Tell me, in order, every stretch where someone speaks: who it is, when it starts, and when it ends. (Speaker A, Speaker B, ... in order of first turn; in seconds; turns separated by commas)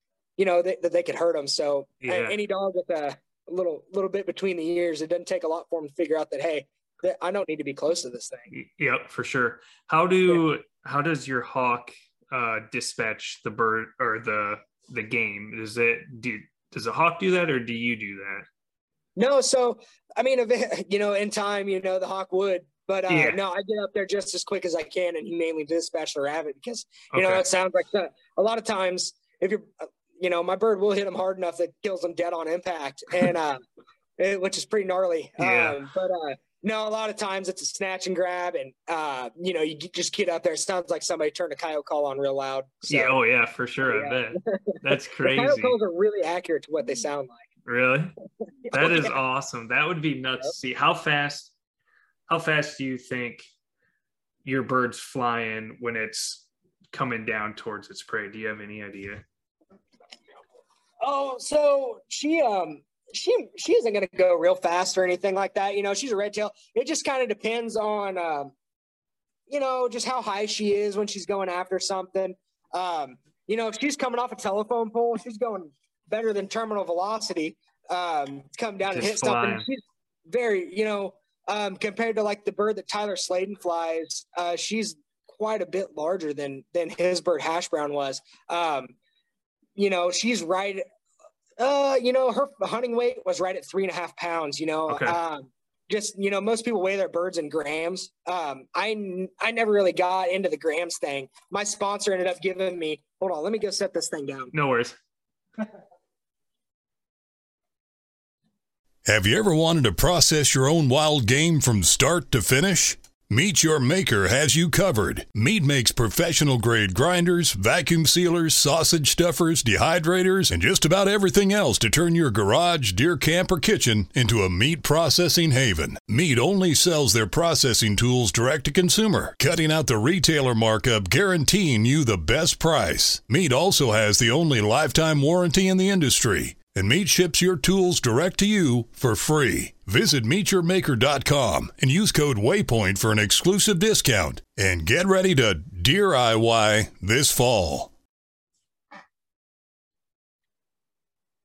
Speaker A: 0.4-8.5, Speaker B: 2.0-2.3, Speaker B: 8.5-18.4, Speaker A: 19.2-33.6, Speaker B: 23.1-23.4, Speaker B: 27.1-27.4, Speaker A: 34.2-43.1, Speaker B: 35.4-35.8, Speaker B: 42.9-45.8, Speaker A: 43.9-47.4, Speaker B: 47.6-48.1, Speaker A: 48.6-49.1, Speaker B: 48.7-51.5, Speaker B: 52.3-53.5, Speaker B: 54.4-59.2, Speaker A: 61.0-68.5, Speaker A: 69.5-88.9, Speaker B: 78.9-79.7, Speaker A: 89.8-90.8, Speaker A: 91.6-104.5, Speaker B: 94.9-95.2, Speaker B: 104.5-105.0, Speaker C: 109.0-147.9